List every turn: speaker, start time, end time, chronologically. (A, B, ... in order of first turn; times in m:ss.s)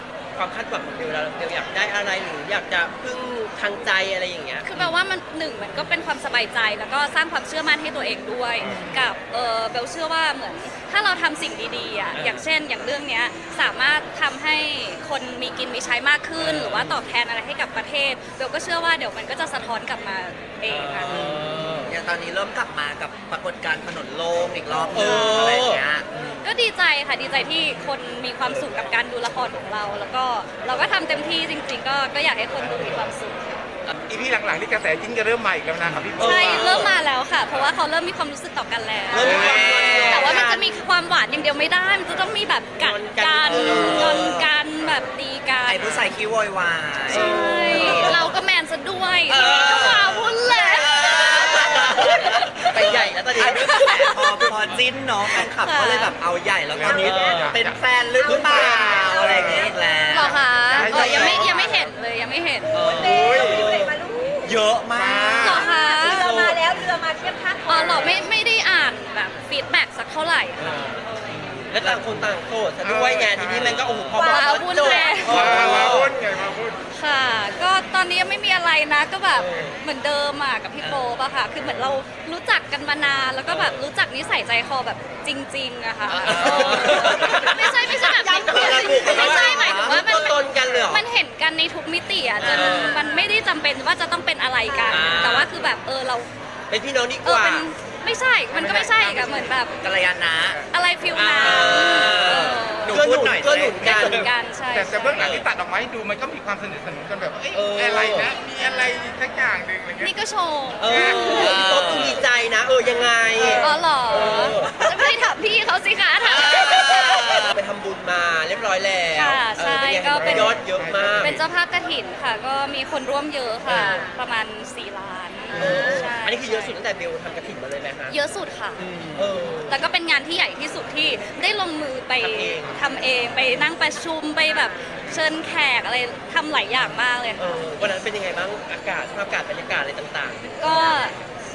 0:00.3-0:04.7 A
0:04.6-0:21.3 B
0:12.1-0:12.4 A
0:16.4-0:17.0 A
0:20.7-0:21.9 A
0:21.1-0:26.4 C
0:24.8-0:25.8 A
0:24.9-0:25.4 B
0:26.4-0:33.4 B
0:34.1-0:36.9 D
0:35.8-0:36.2 C
0:36.2-0:37.0 A
0:36.2-0:46.0 B
0:39.1-0:40.7 A
0:39.1-0:40.4 C
0:42.8-0:44.3 A
0:43.4-0:44.5 C
0:45.6-0:48.3 C
0:47.1-0:54.5 B
0:47.1-0:48.3 A
0:49.3-1:01.5 C
0:49.4-0:50.0 A
0:50.8-0:54.1 A
0:55.3-0:56.2 B
0:56.7-1:01.9 D
0:56.8-1:00.0 E
0:57.0-0:57.6 A
0:58.3-0:58.6 A
1:00.1-1:02.7 B
1:02.7-1:04.6 E
1:02.7-1:03.6 C
1:02.8-1:03.9 A
1:02.8-1:03.7 D
1:04.4-1:06.5 C
1:04.9-1:05.7 D
1:05.4-1:06.3 B
1:05.5-1:08.2 E
1:07.7-1:10.9 B
1:07.8-1:08.2 A
1:10.6-1:11.0 A
1:11.3-1:12.0 C
1:11.7-1:16.2 A
1:12.8-1:14.0 D
1:14.1-1:15.3 E
1:14.2-1:15.7 B
1:15.2-1:16.8 D
1:15.4-1:16.0 C
1:16.9-1:36.3 B
1:19.3-1:19.8 A
1:23.4-1:23.8 A
1:26.1-1:30.9 C
1:26.2-1:31.0 A
1:28.1-1:29.5 E
1:32.4-1:33.0 A
1:32.6-1:33.3 E
1:34.7-1:35.1 E
1:34.9-1:35.7 A
1:36.7-1:37.6 A
1:37.2-1:39.8 B
1:38.7-1:39.5 D
1:39.8-1:40.6 C
1:40.7-1:43.0 B
1:41.1-1:44.2 A
1:41.4-1:44.3 C
1:43.5-1:50.1 D
1:43.8-1:45.3 B
1:45.2-1:45.4 A
1:47.5-1:48.3 A
1:48.6-1:48.9 B
1:50.0-1:51.6 B
1:50.8-1:54.7 A
1:51.0-1:52.2 C
1:53.4-1:53.7 D
1:53.6-1:57.5 B
1:56.3-1:57.5 C
1:57.4-2:01.4 A
1:59.1-2:00.6 B
2:00.1-2:01.4 D
2:01.2-2:06.8 B
2:03.7-2:04.0 A
2:05.5-2:08.2 A
2:05.6-2:06.0 E
2:08.1-2:08.8 B
2:08.8-2:09.2 C
2:09.1-2:09.8 A
2:09.7-2:17.6 B
2:12.2-2:12.8 A
2:17.4-2:20.9 A
2:20.6-2:21.1 B